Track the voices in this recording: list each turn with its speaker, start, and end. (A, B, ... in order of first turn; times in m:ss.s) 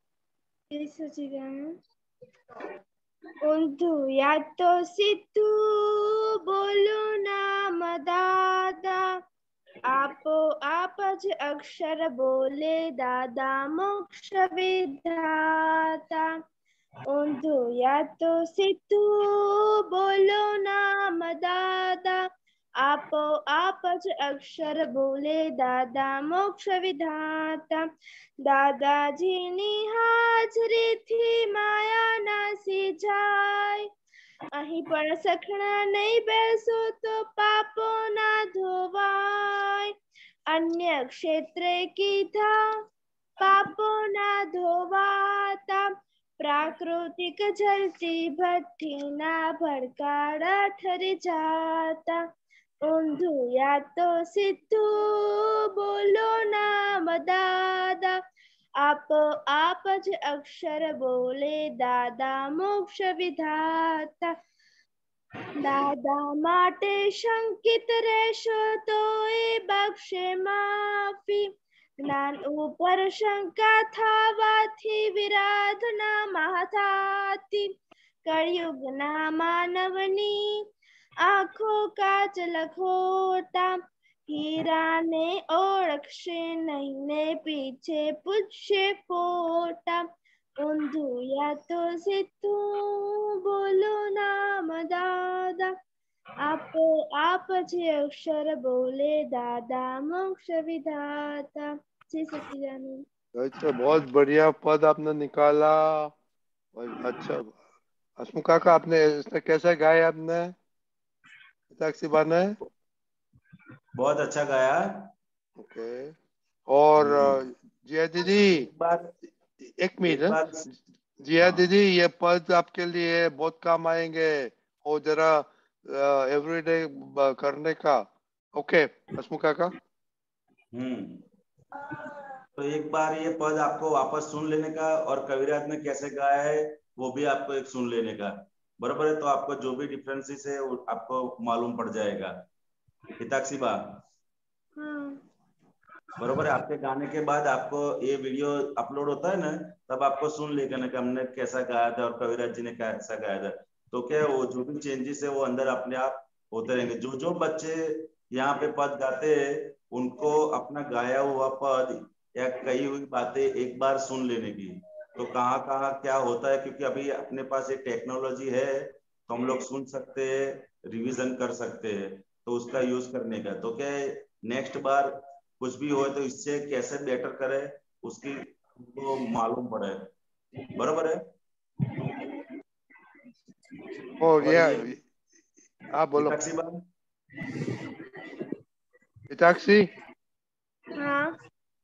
0:00.7-0:01.6 A
0:03.4-0:09.0 A
0:09.9-0:16.3 A
0:17.1-0:22.2 A
0:22.8-0:27.8 A
0:28.4-0:33.9 A
0:34.6-0:39.9 A
0:40.5-0:42.6 A
0:43.4-0:45.8 A
0:46.4-0:52.2 A
0:52.8-0:58.2 A
0:58.8-1:04.3 A
1:05.6-1:11.5 A
1:12.0-1:17.7 A
1:18.2-1:20.6 A
1:21.2-1:23.7 A
1:24.3-1:30.0 A
1:30.6-1:35.7 A
1:36.4-1:43.0 A
1:43.4-1:46.1 B
1:46.8-1:47.6 B
1:48.2-1:50.6 B
1:51.7-1:52.6 B
1:54.0-1:55.1 C
1:55.6-1:56.2 B
1:56.7-1:58.7 B
1:57.0-1:57.4 C
1:58.2-1:59.1 C
1:59.8-2:00.4 B
2:00.0-2:00.6 C
2:01.2-2:09.7 B
2:01.4-2:01.7 C
2:10.7-2:11.2 C
2:12.6-2:22.4 C
2:23.2-2:23.8 C
2:24.8-2:25.2 A
2:26.2-3:00.1 C
3:00.8-3:01.2 C
3:04.2-3:05.0 B
3:04.4-3:04.9 C
3:06.0-3:06.4 B
3:06.2-3:06.8 C
3:09.3-3:09.9 B
3:11.0-3:11.3 A